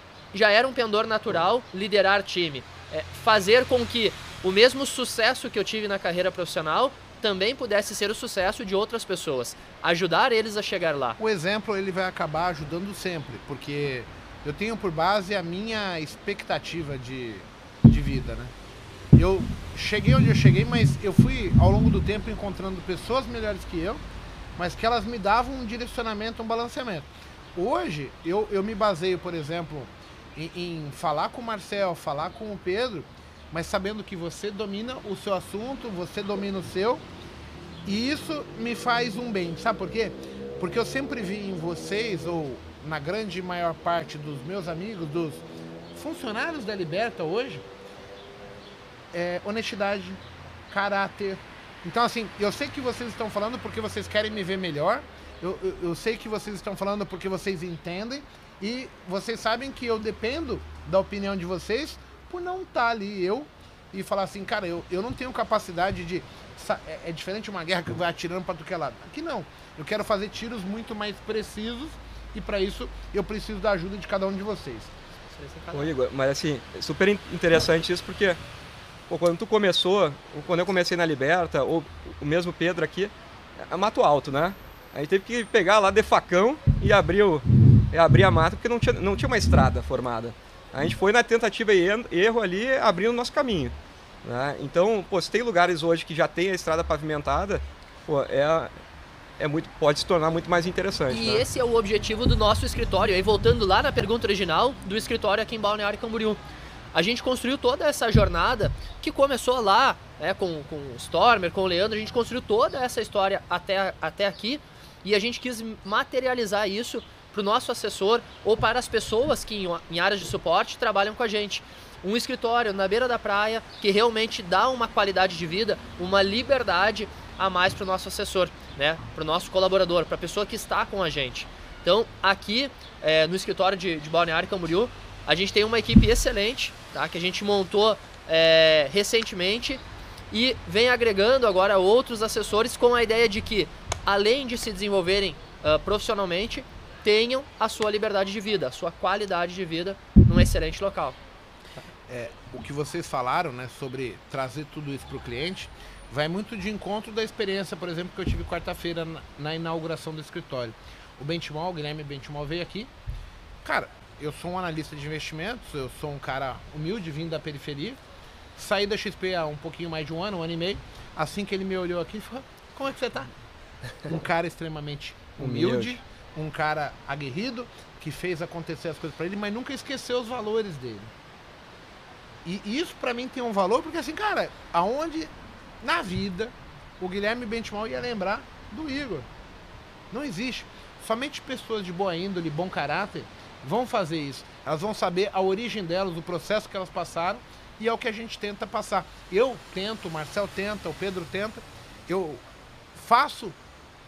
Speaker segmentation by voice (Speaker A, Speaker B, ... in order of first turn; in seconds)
Speaker A: 0.3-11.2, 75.3-75.9, 101.1-106.4, 106.9-151.2
Speaker B: 11.2-18.5, 19.1-24.0, 24.6-37.0, 37.9-47.6, 49.1-74.9, 152.1-162.9, 163.6-168.0, 168.6-173.3, 174.0-181.1, 182.4-189.3, 190.1-202.4, 202.9-203.6
Speaker C: 75.7-78.4, 79.1-98.7, 99.4-101.5, 175.4-176.0